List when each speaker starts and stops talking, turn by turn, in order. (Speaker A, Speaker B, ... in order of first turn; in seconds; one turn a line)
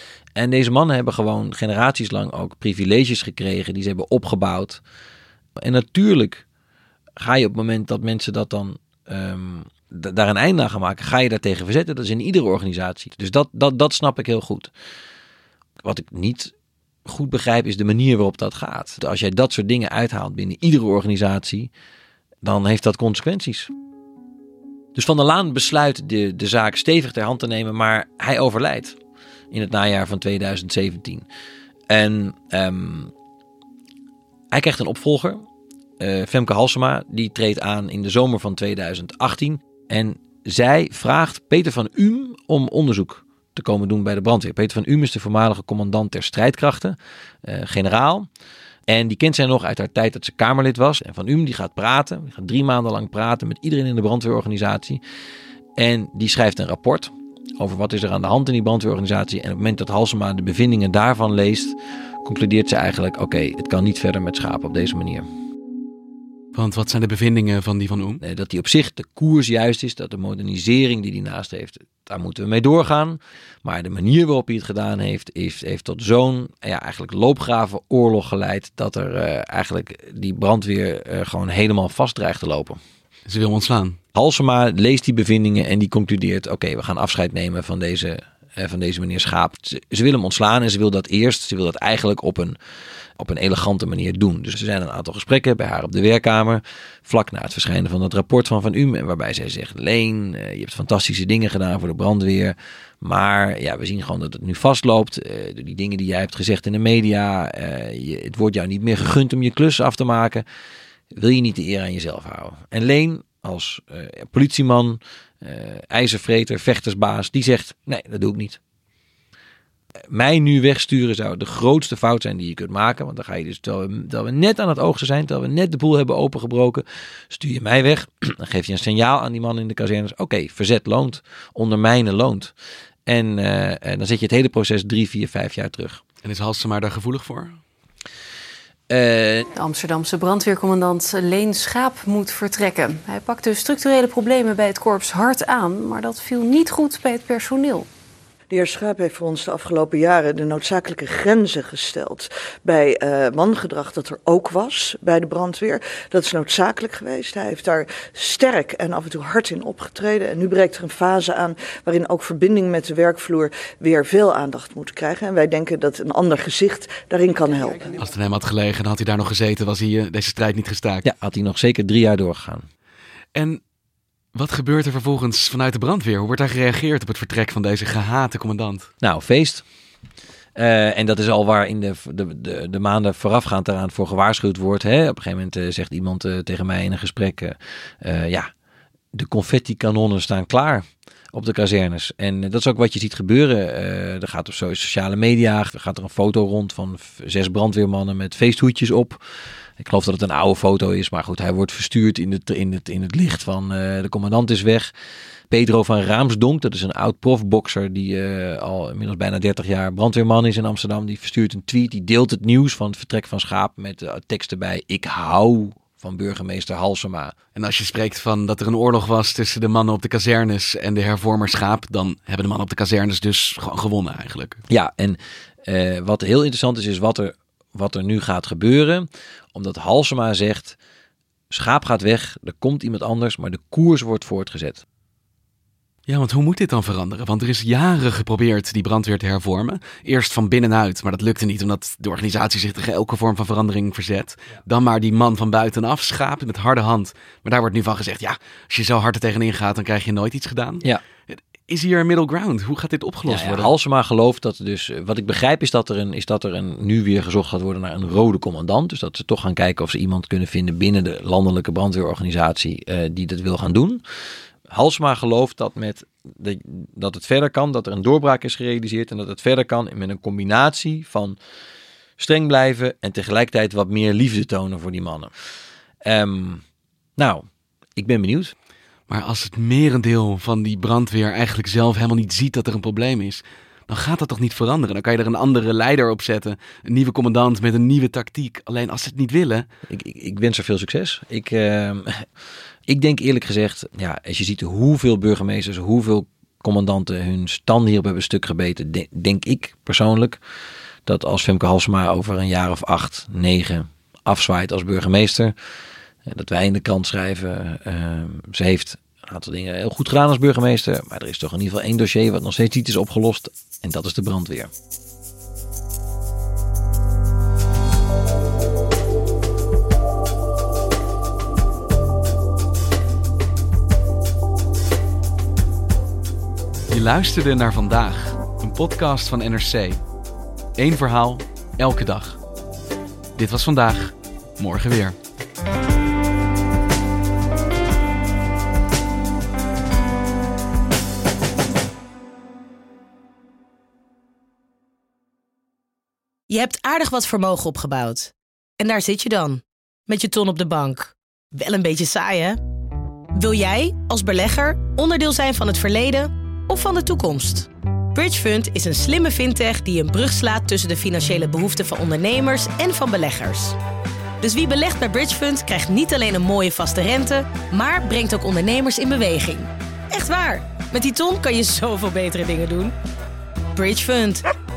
Speaker A: 0.3-4.8
Speaker A: 5.6-6.4
Speaker A: 7.2-14.7
Speaker A: 15.8-16.5
Speaker A: 17.0-21.7
Speaker A: 22.4-23.7
Speaker A: 24.9-29.0
Speaker A: 29.5-31.2
Speaker A: 31.9-33.1
Speaker A: 34.5-35.4
Speaker A: 36.0-48.3
Speaker A: 48.9-55.0
Speaker A: 55.8-65.2
Speaker B: 66.5-68.2
Speaker A: 68.2-82.8
Speaker B: 83.3-84.0
Speaker A: 84.1-92.6
Speaker A: 93.2-110.4
Speaker A: 111.2-118.6
Speaker A: 120.1-132.5
Speaker A: 133.1-136.0
Speaker B: 136.2-137.6
Speaker A: 138.9-139.5
Speaker C: 139.6-147.8
Speaker D: 148.5-167.8
Speaker B: 168.0-171.0
Speaker A: 171.0-172.7
Speaker B: 173.3-173.6
Speaker B: 174.3-178.9
Speaker A: 179.0-179.6
Speaker A: 180.6-188.5
Speaker A: 189.1-199.2
Speaker A: 199.8-204.9
Speaker A: 205.5-217.3
Speaker B: 217.5-224.6
Speaker A: 224.7-230.8
Speaker A: 231.5-234.8
Speaker B: 236.1-253.7
Speaker A: 253.3-264.0
Speaker A: 264.7-271.4
Speaker A: 272.2-275.3
Speaker A: 276.0-276.6
Speaker A: 277.2-277.4
Speaker A: 278.0-278.5
Speaker B: 279.1-289.6
Speaker A: 289.9-292.2
Speaker A: 292.9-300.4
Speaker A: 301.1-305.5
Speaker A: 306.2-314.7
Speaker B: 326.9-330.0
Speaker B: 330.8-332.4
Speaker B: 333.4-335.1
Speaker E: 346.5-352.6
Speaker E: 353.3-363.8
Speaker E: 364.4-372.9
Speaker E: 373.7-374.4